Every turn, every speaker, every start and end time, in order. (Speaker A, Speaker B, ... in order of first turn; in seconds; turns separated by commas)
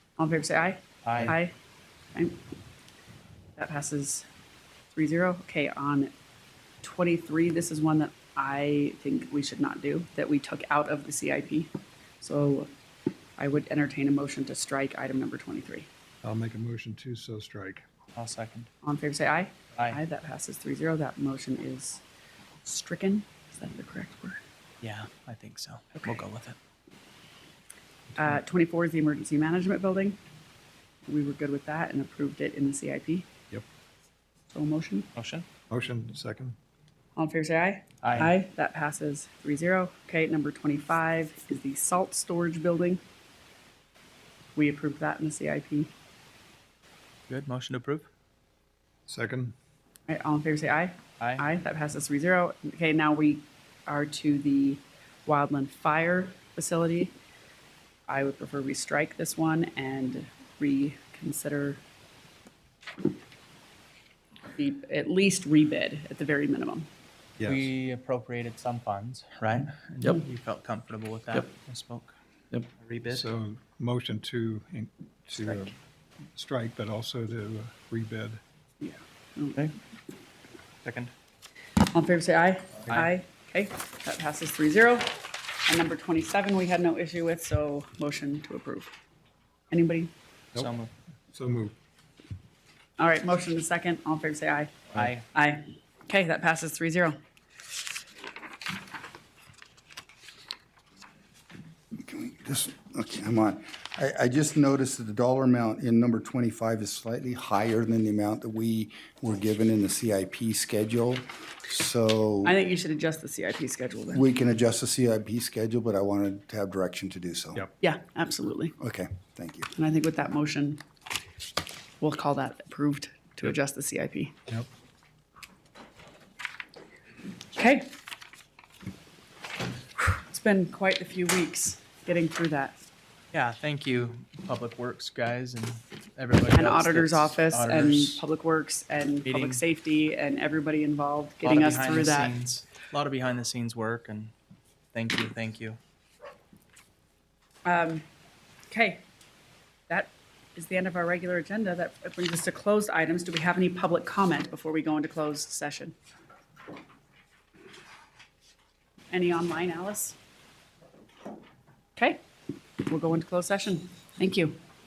Speaker A: 0.2-1.5, Speaker B: 1.1-1.4, Speaker A: 2.1-2.4, Speaker A: 3.6-4.3, Speaker A: 4.9-6.1, Speaker A: 6.8-12.7, Speaker A: 13.4-15.9, Speaker C: 16.2-17.8, Speaker B: 18.1-18.7, Speaker A: 18.8-22.0, Speaker B: 19.8-20.0, Speaker A: 22.6-24.4, Speaker B: 24.8-26.6, Speaker A: 28.2-30.2, Speaker A: 31.1-33.3, Speaker A: 34.5-35.1, Speaker B: 35.1-35.5, Speaker C: 35.7-36.6, Speaker A: 37.2-43.0, Speaker B: 38.0-38.4, Speaker A: 44.6-45.9, Speaker B: 47.3-48.1, Speaker C: 49.1-49.5, Speaker A: 50.1-57.1, Speaker B: 51.2-51.5, Speaker A: 58.1-61.8, Speaker A: 64.6-66.9, Speaker C: 67.4-67.6, Speaker B: 67.4-73.3, Speaker C: 73.1-75.7, Speaker C: 76.3-78.4, Speaker A: 78.8-79.7, Speaker B: 80.8-81.1, Speaker A: 81.9-88.9, Speaker A: 89.7-90.1, Speaker B: 90.6-90.9, Speaker C: 91.3-91.8, Speaker A: 93.0-97.2, Speaker B: 95.0-95.3, Speaker D: 102.0-112.6, Speaker A: 112.4-114.2, Speaker D: 114.1-117.6, Speaker A: 117.8-118.8, Speaker D: 118.8-119.7, Speaker A: 119.8-120.8, Speaker A: 122.0-124.4, Speaker A: 127.5-127.9, Speaker A: 130.0-132.8, Speaker B: 133.3-138.2, Speaker A: 136.5-142.3, Speaker B: 139.2-139.6, Speaker B: 141.4-144.3, Speaker B: 144.9-145.8, Speaker A: 147.7-148.1, Speaker A: 148.7-149.0, Speaker A: 149.9-155.9, Speaker A: 159.1-160.2, Speaker A: 162.8-164.6